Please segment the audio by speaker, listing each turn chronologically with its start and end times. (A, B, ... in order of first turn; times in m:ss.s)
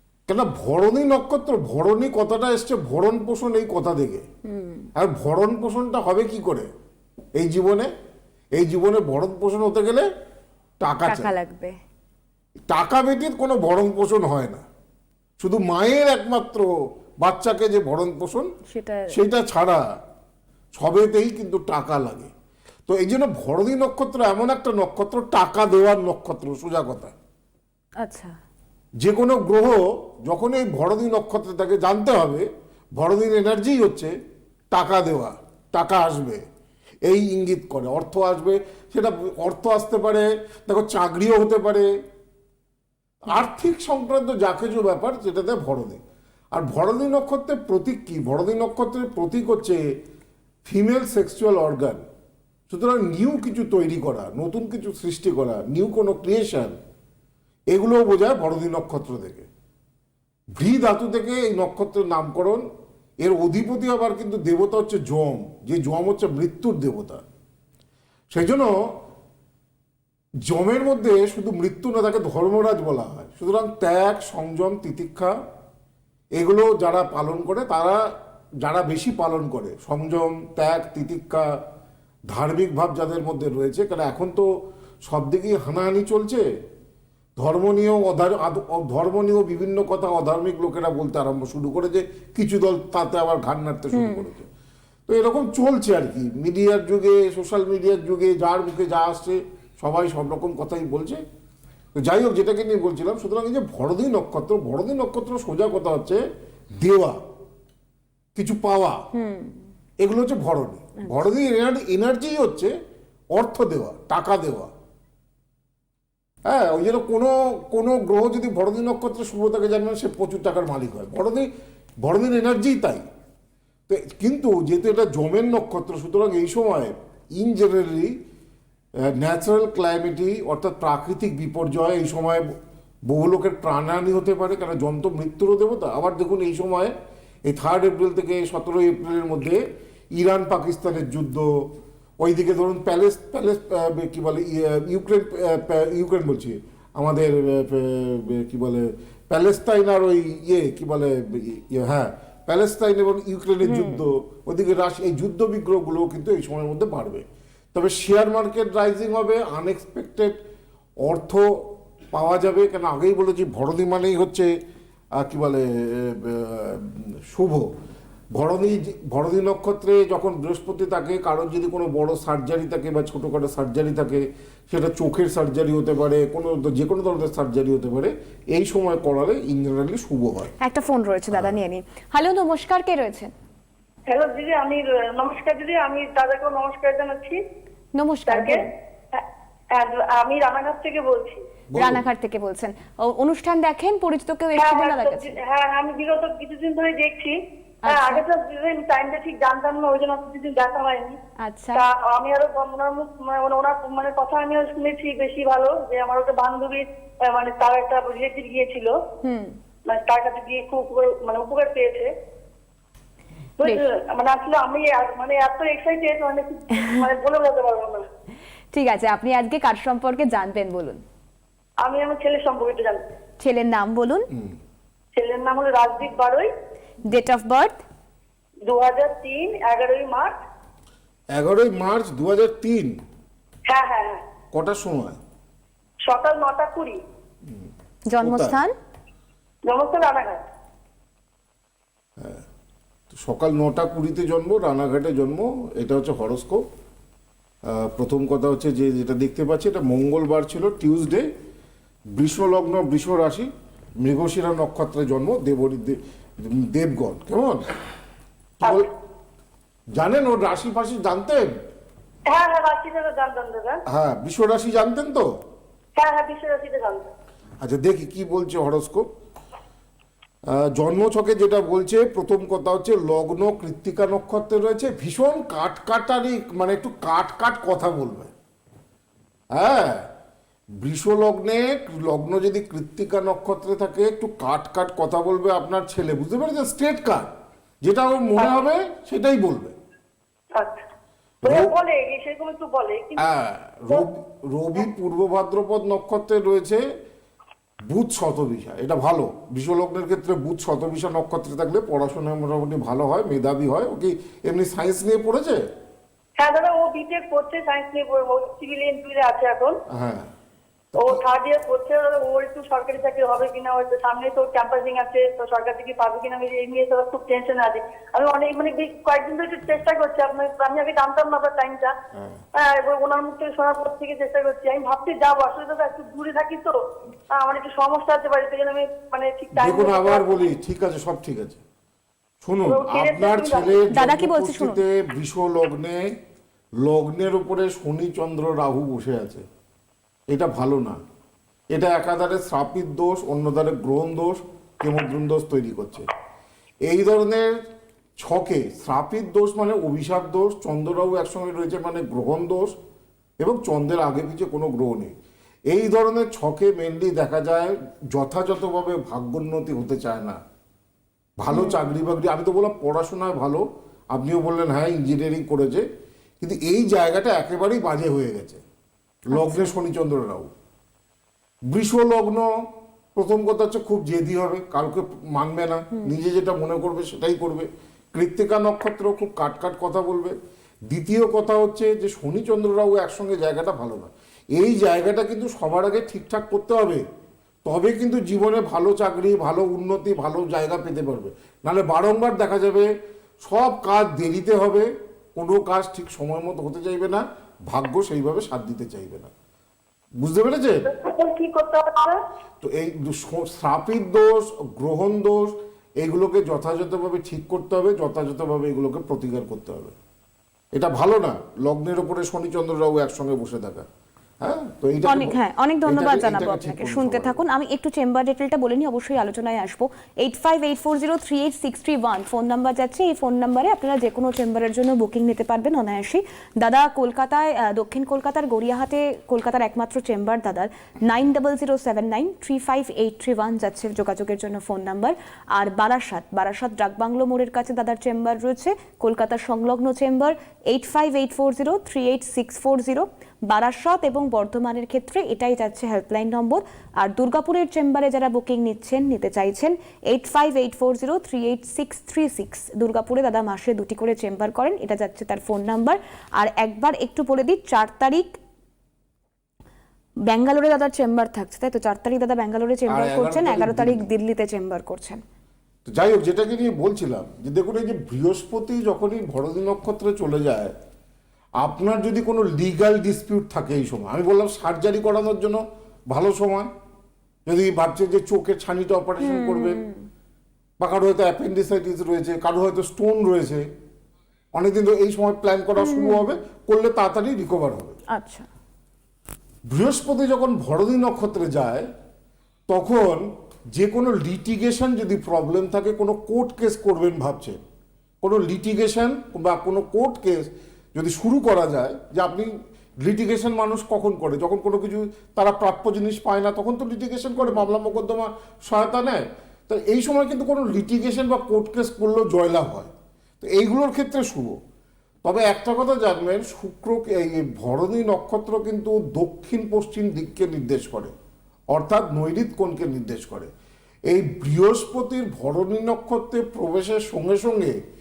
0:00.3-0:04.2 A
0:04.5-0:04.9 B
0:05.0-0:06.7 A
0:07.4-0:07.9 A
0:08.6-0:10.1 A
0:10.8-0:11.3 A
0:11.1-0:11.8 B
0:12.7-0:14.6 A
0:15.4-0:16.7 A
0:17.2-0:18.5 A
0:18.7-0:19.2 B
0:19.1-0:19.8 A
0:20.8-0:22.3 A
0:22.9-0:27.1 A
0:28.0-0:28.4 B
0:29.0-0:34.1 A
0:34.7-0:36.4 A
0:37.0-0:41.9 A
0:43.2-0:46.0 A
0:46.5-0:49.9 A
0:50.6-0:52.0 A
0:52.7-0:56.8 A
0:57.7-0:59.5 A
1:00.6-1:02.6 A
1:03.2-1:07.2 A
1:08.3-1:08.7 A
1:10.5-1:15.4 A
1:16.4-1:18.0 A
1:18.6-1:21.5 A
1:22.3-1:24.5 A
1:25.0-1:26.4 A
1:27.4-1:34.5 A
1:33.9-1:34.3 B
1:35.1-1:41.2 A
1:42.0-1:46.2 A
1:46.8-1:47.2 A
1:48.4-1:49.0 A
1:49.1-1:49.6 B
1:50.0-1:52.7 A
1:53.4-1:54.7 A
1:56.5-2:01.5 A
2:02.0-2:03.0 A
2:03.9-2:08.2 A
2:09.0-2:12.5 A
2:13.1-2:16.9 A
2:17.5-2:19.6 A
2:20.2-2:21.5 A
2:22.2-2:40.4 A
2:33.6-2:34.0 B
2:41.0-2:44.5 A
2:45.2-2:47.7 A
2:48.4-3:00.5 A
3:00.6-3:03.3 B
3:01.3-3:01.6 A
3:04.1-3:07.4 C
3:08.0-3:08.7 B
3:08.3-3:11.4 C
3:11.8-3:12.0 A
3:11.8-3:15.4 B
3:14.6-3:21.2 C
3:17.8-3:18.2 B
3:21.4-3:21.9 B
3:21.7-3:29.0 C
3:29.2-3:29.6 B
3:29.9-3:32.1 C
3:33.6-3:38.1 C
3:36.8-3:37.1 B
3:38.7-3:41.0 B
3:41.8-3:43.1 C
3:43.4-3:44.3 B
3:44.3-3:44.6 A
3:45.2-3:46.5 C
3:47.0-3:47.8 B
3:48.7-3:50.4 C
3:51.3-3:53.0 A
3:53.7-3:54.2 C
3:54.5-3:55.2 A
3:56.1-3:57.0 C
3:58.1-3:58.7 B
3:58.2-3:58.6 A
3:59.7-4:00.4 C
4:02.2-4:02.4 A
4:03.1-4:06.6 A
4:07.7-4:11.3 A
4:12.1-4:13.5 A
4:14.0-4:17.6 A
4:18.6-4:18.9 A
4:20.0-4:21.5 A
4:22.3-4:23.8 C
4:23.9-4:25.3 A
4:26.0-4:27.1 C
4:27.6-4:29.1 A
4:30.5-4:38.3 A
4:39.5-4:40.1 A
4:40.8-4:47.3 A
4:47.8-4:49.8 A
4:48.4-4:48.6 C
4:50.6-4:50.8 C
4:51.4-4:51.7 A
4:51.4-4:53.3 C
4:53.2-4:56.8 A
4:57.9-5:05.6 A
5:06.4-5:09.8 C
5:09.9-5:10.3 A
5:11.0-5:21.9 C
5:22.2-5:22.4 A
5:22.6-5:26.8 C
5:27.3-5:30.5 C
5:29.6-5:31.6 A
5:32.4-5:36.1 A
5:32.6-5:33.9 C
5:33.9-5:34.8 B
5:36.8-5:39.4 A
5:40.3-5:41.0 A
5:41.7-5:46.1 A
5:46.9-5:47.5 A
5:48.2-5:52.8 A
5:53.4-5:55.2 A
5:55.7-6:00.4 A
6:01.4-6:05.9 A
6:01.5-6:01.8 B
6:06.4-6:08.6 A
6:09.3-6:10.5 A
6:09.3-6:09.8 B
6:11.7-6:12.5 A
6:13.2-6:20.4 A
6:20.9-6:27.0 A
6:27.6-6:32.9 A
6:33.4-6:39.3 A
6:40.2-6:40.9 A
6:40.9-6:42.2 C
6:42.6-6:50.0 A
6:50.7-6:53.9 A
6:54.4-6:57.4 A
6:55.0-7:38.4 B
7:40.3-7:45.2 B
7:42.9-7:44.0 A
7:45.9-7:50.7 A
7:51.6-7:56.7 A
7:57.5-7:59.8 A
7:59.2-8:00.1 B
8:00.8-8:03.7 A
8:04.6-8:08.0 A
8:05.8-8:06.3 B
8:08.1-8:08.5 B
8:09.7-8:11.9 A
8:12.7-8:17.6 A
8:18.2-8:22.5 A
8:23.0-8:34.6 A
8:35.2-8:41.1 A
8:41.7-8:43.5 A
8:44.1-8:47.8 A